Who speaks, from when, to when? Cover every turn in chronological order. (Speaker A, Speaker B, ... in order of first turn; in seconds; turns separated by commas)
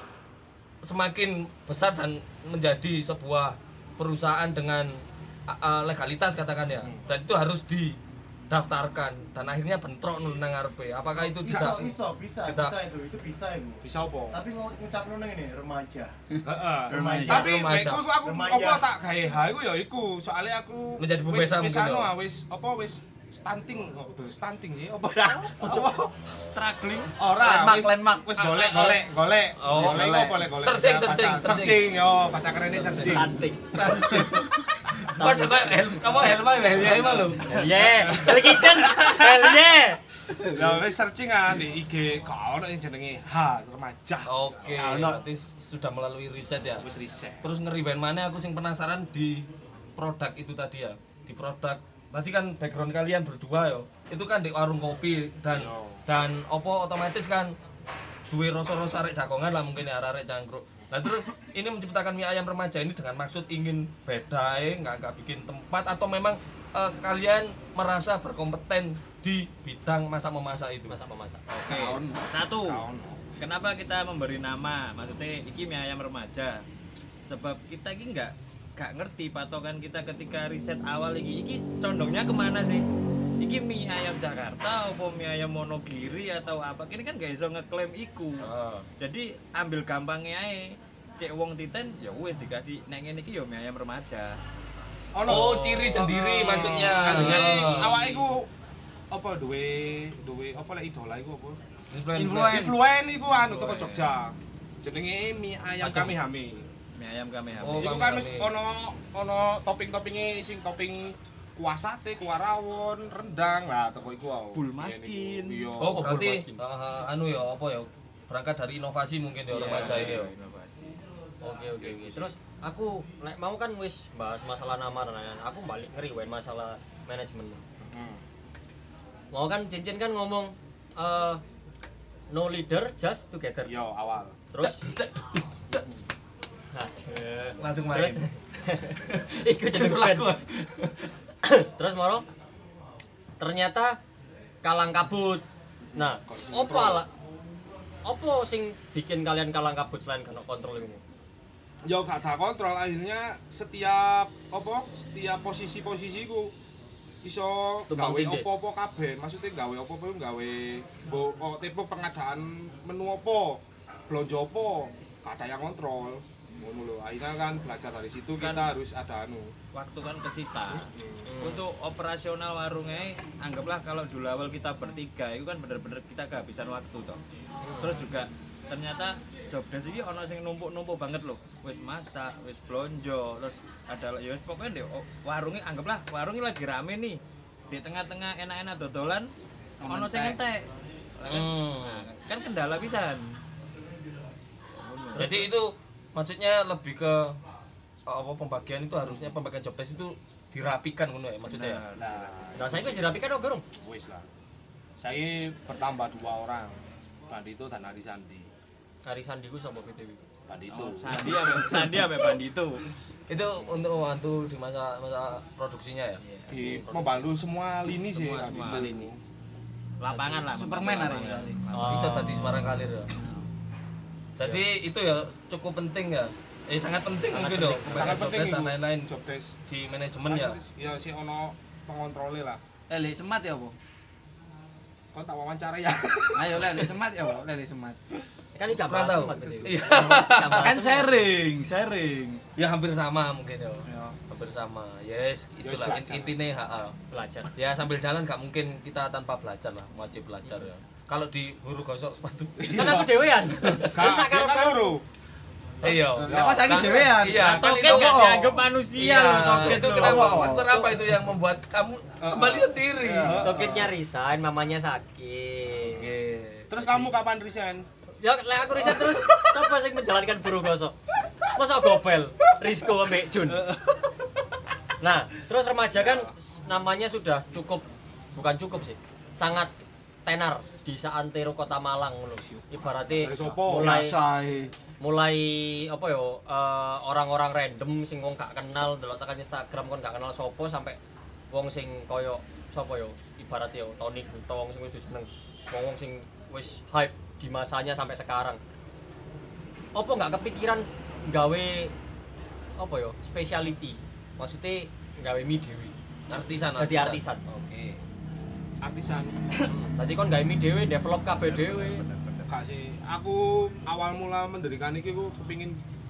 Speaker A: 0.8-8.0, Speaker B: 6.8-7.0, Speaker A: 8.5-11.9, Speaker B: 11.4-11.9, Speaker C: 11.4-16.1, Speaker A: 12.4-12.7, Speaker B: 13.8-14.4, Speaker B: 16.4-26.2, Speaker D: 16.9-17.5, Speaker C: 16.9-18.8, Speaker A: 17.2-18.0, Speaker A: 21.0-22.1, Speaker E: 26.3-27.1, Speaker B: 27.2-33.4, Speaker D: 27.3-28.3, Speaker A: 28.4-29.0, Speaker A: 29.6-31.9, Speaker D: 29.7-30.5, Speaker A: 32.8-34.5, Speaker F: 33.0-34.3, Speaker A: 35.0-38.3, Speaker F: 35.1-35.7, Speaker B: 36.7-39.2, Speaker F: 37.5-40.0, Speaker D: 40.4-40.8, Speaker B: 40.4-45.0, Speaker A: 44.2-46.9, Speaker D: 44.7-45.2, Speaker B: 46.8-47.5, Speaker A: 47.4-57.5, Speaker B: 55.5-56.0, Speaker A: 58.3-71.0, Speaker F: 70.9-71.6, Speaker E: 71.6-72.8, Speaker D: 71.6-72.3, Speaker B: 72.5-73.2, Speaker E: 73.4-76.6, Speaker E: 77.2-82.8, Speaker E: 83.4-94.4, Speaker A: 88.4-88.9, Speaker B: 95.1-98.5, Speaker A: 95.2-98.0, Speaker E: 96.7-98.2, Speaker B: 99.1-101.6, Speaker A: 101.9-102.7, Speaker D: 102.1-102.8, Speaker B: 102.4-106.7, Speaker E: 103.4-104.1, Speaker A: 105.8-106.2, Speaker E: 107.0-108.0, Speaker A: 107.6-108.5, Speaker B: 107.7-116.1, Speaker E: 114.5-115.8, Speaker A: 115.8-120.3, Speaker F: 115.8-116.6, Speaker E: 119.5-121.0, Speaker F: 119.7-120.1, Speaker B: 119.7-120.0, Speaker F: 121.4-127.6, Speaker B: 121.8-122.3, Speaker B: 127.8-128.2, Speaker F: 129.3-131.4, Speaker F: 132.3-133.8, Speaker B: 133.6-134.4, Speaker F: 134.5-134.9, Speaker A: 134.6-136.0, Speaker F: 136.7-140.3, Speaker A: 137.6-138.3, Speaker A: 139.1-141.1, Speaker F: 141.4-142.2, Speaker F: 143.4-144.0, Speaker F: 144.6-145.4, Speaker B: 145.9-147.0, Speaker F: 145.9-147.1, Speaker F: 148.0-151.0, Speaker B: 151.8-156.5, Speaker B: 157.2-169.5, Speaker F: 157.9-158.5, Speaker E: 168.4-168.7, Speaker E: 169.7-170.9, Speaker B: 170.7-171.3, Speaker F: 171.2-171.6, Speaker E: 171.4-177.2, Speaker F: 177.6-178.1, Speaker E: 177.8-187.2, Speaker E: 187.7-189.3, Speaker D: 189.8-190.4, Speaker E: 189.8-193.4, Speaker A: 191.2-192.1, Speaker E: 194.7-195.5, Speaker A: 195.2-197.4, Speaker A: 198.1-201.8, Speaker E: 201.4-202.8, Speaker B: 201.9-203.2, Speaker F: 202.6-203.6, Speaker B: 203.8-204.2, Speaker B: 205.0-208.5, Speaker F: 209.0-210.2, Speaker B: 210.5-211.9, Speaker E: 210.7-212.8, Speaker A: 213.3-216.2, Speaker E: 216.2-216.5, Speaker F: 216.5-217.3, Speaker B: 216.5-219.2, Speaker E: 218.1-219.1, Speaker E: 220.0-222.4, Speaker D: 220.3-221.6, Speaker F: 221.7-222.5, Speaker A: 221.9-223.1, Speaker A: 224.4-229.1, Speaker F: 227.3-228.1, Speaker D: 227.6-227.9, Speaker B: 227.9-229.6, Speaker A: 229.7-230.6, Speaker B: 230.3-232.6, Speaker D: 232.9-233.8, Speaker B: 235.1-236.9, Speaker D: 236.3-238.0, Speaker F: 238.6-241.3, Speaker A: 238.7-240.7, Speaker D: 240.5-242.4, Speaker A: 242.6-247.0, Speaker D: 243.9-244.2, Speaker B: 245.6-246.4, Speaker F: 247.1-247.5, Speaker A: 247.5-253.1, Speaker B: 252.6-253.1, Speaker F: 252.7-254.9, Speaker B: 253.7-255.0, Speaker A: 255.8-258.3, Speaker D: 256.1-260.9, Speaker B: 256.2-256.9, Speaker E: 257.3-260.4, Speaker A: 259.0-263.4, Speaker B: 262.2-263.9, Speaker D: 263.0-263.6, Speaker F: 263.4-266.1, Speaker A: 265.9-267.0, Speaker B: 266.7-267.9, Speaker F: 268.2-270.9, Speaker B: 268.7-269.3, Speaker F: 271.5-273.7, Speaker F: 275.0-279.7, Speaker B: 275.9-276.3, Speaker F: 280.2-284.2, Speaker B: 283.1-283.9, Speaker D: 283.7-284.7, Speaker F: 285.0-291.0, Speaker F: 291.5-298.6, Speaker F: 299.9-301.9, Speaker F: 302.8-305.9, Speaker A: 306.3-307.2, Speaker F: 306.8-307.4, Speaker E: 307.5-308.0, Speaker B: 308.8-309.7, Speaker F: 309.7-312.0, Speaker E: 311.4-312.5, Speaker B: 312.5-315.8